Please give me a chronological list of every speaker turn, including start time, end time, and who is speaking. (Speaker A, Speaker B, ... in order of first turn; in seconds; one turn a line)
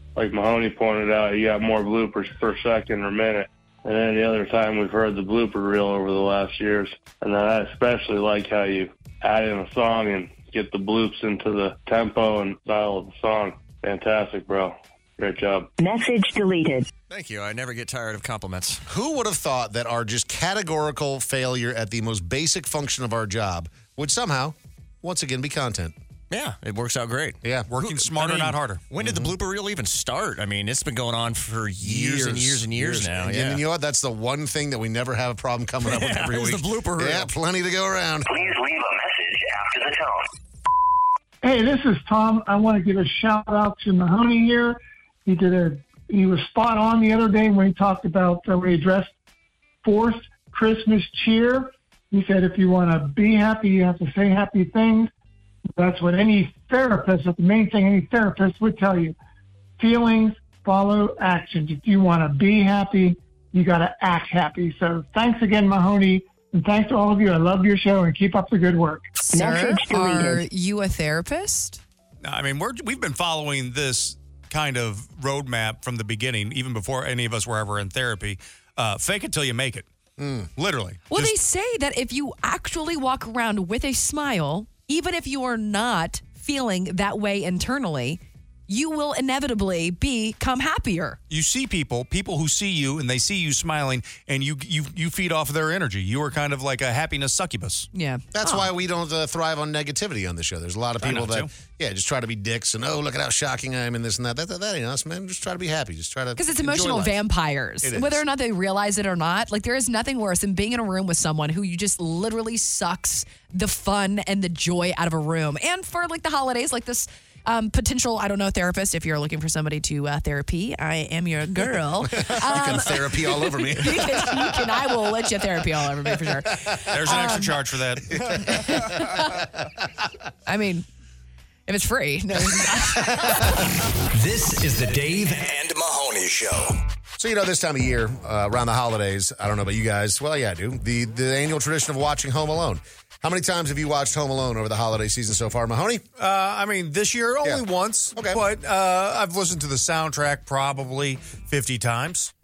Speaker A: 0.2-15.7
Speaker B: 15.8-16.9
Speaker C: 17.1-18.8
Speaker D: 18.9-25.9
Speaker C: 26.3-33.6
Speaker D: 27.4-27.7
Speaker E: 27.7-28.8
Speaker D: 29.0-29.3
Speaker D: 31.8-38.3
Speaker C: 35.9-37.3
Speaker F: 38.3-40.3
Speaker G: 41.4-49.1
Speaker G: 49.8-55.1
Speaker G: 55.8-59.2
Speaker G: 59.8-69.1
Speaker H: 69.2-71.8
Speaker B: 69.3-70.4
Speaker E: 72.2-79.9
Speaker D: 80.2-80.5
Speaker E: 80.6-81.3
Speaker H: 81.1-91.2
Speaker E: 91.3-97.9
Speaker H: 97.9-98.7
Speaker D: 98.3-107.2
Speaker E: 101.0-101.5
Speaker H: 106.4-127.6
Speaker D: 107.8-108.2
Speaker D: 122.0-124.7
Speaker E: 126.9-128.4
Speaker D: 128.2-128.8
Speaker H: 128.4-129.4
Speaker H: 130.5-130.9
Speaker H: 131.7-133.6
Speaker I: 134.1-136.8
Speaker D: 137.2-146.0
Speaker E: 146.2-152.3
Speaker D: 148.2-148.4